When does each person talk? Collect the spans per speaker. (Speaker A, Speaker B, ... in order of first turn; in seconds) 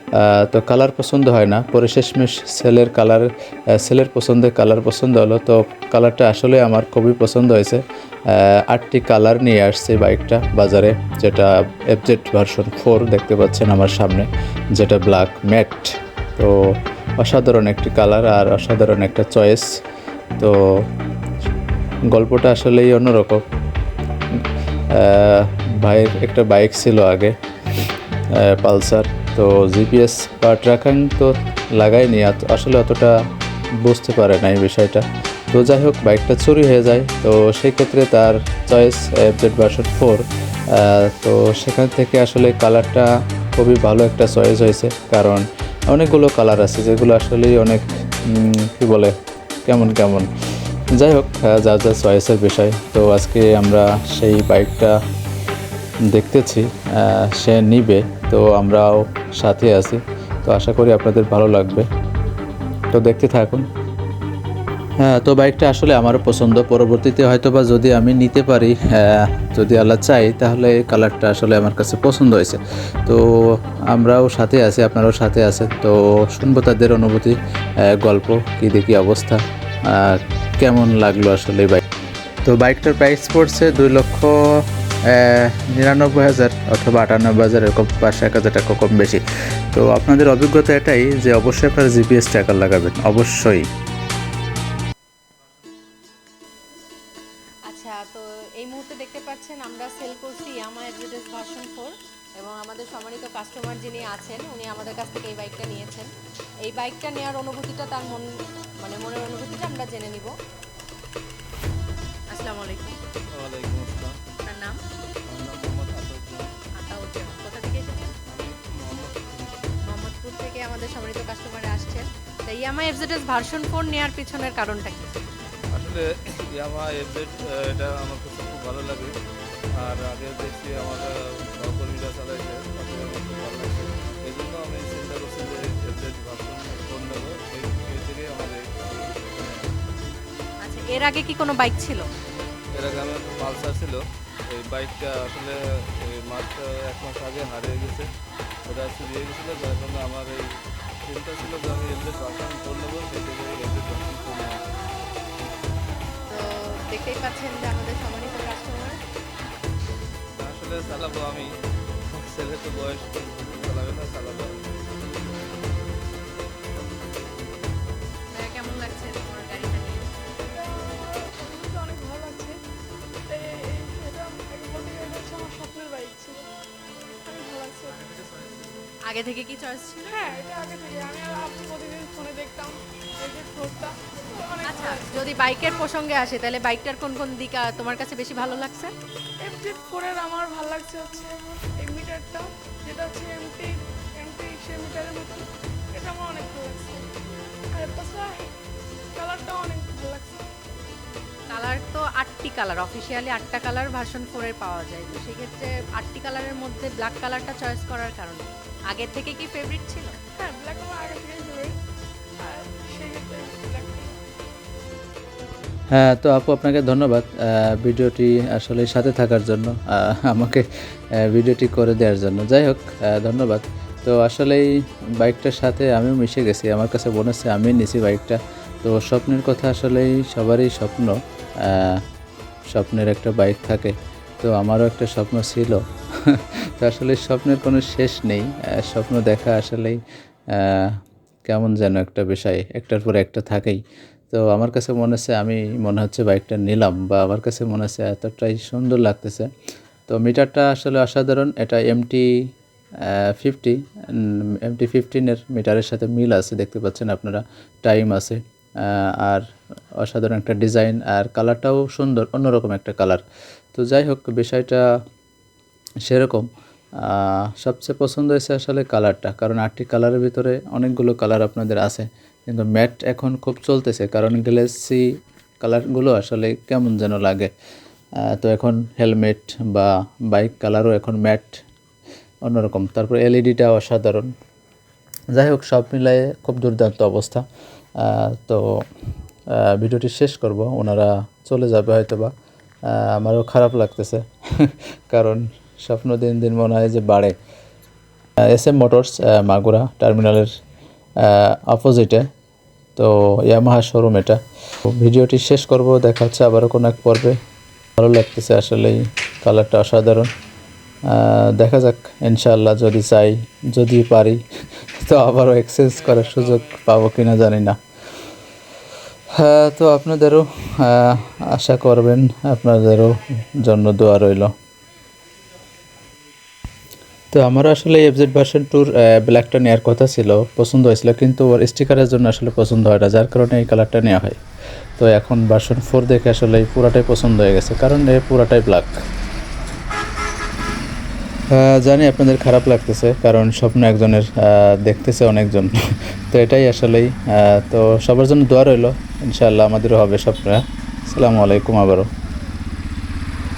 Speaker A: 0.1-19.8, 20.4-20.9, 22.1-23.4, 24.4-27.4, 28.3-33.2, 33.8-49.1, 49.6-50.3, 51.0-55.0, 56.1-61.9, 62.9-63.7, 65.0-81.8, 82.5-89.2, 89.7-93.7, 215.9-232.0, 232.7-240.0, 240.5-243.8, 244.3-249.5, 250.1-252.5, 253.0-259.4, 260.0-263.2, 263.8-264.8, 266.0-266.5, 267.0-275.0, 275.6-277.5, 278.2-281.6, 282.4-284.3, 285.3-287.4, 288.0-288.8, 289.5-292.3, 292.8-297.3, 298.4-300.5, 301.2-302.3, 302.9-307.4, 308.0-310.3, 311.1-314.4, 315.0-317.8, 319.3-324.5, 327.3-334.4, 335.0-339.0, 341.5-352.1
Speaker B: 97.7-106.1, 106.6-108.3, 108.8-110.3, 112.3-113.0, 114.4-114.8, 116.8-118.1, 119.8-125.2, 140.6-142.1, 156.3-159.0, 168.3-170.1, 179.1-180.1, 184.6-188.9, 201.5-210.2
Speaker C: 113.3-114.2, 115.3-116.5, 118.3-119.6, 125.7-129.1, 129.8-139.7, 142.7-148.1, 148.7-150.4, 151.0-154.6, 160.4-161.5, 162.1-164.8
Speaker D: 170.5-172.6, 173.3-176.4, 177.3-177.9, 180.0-185.1, 189.4-195.4, 195.9-197.1, 197.8-198.5, 199.2-200.4, 210.4-211.7, 212.4-214.1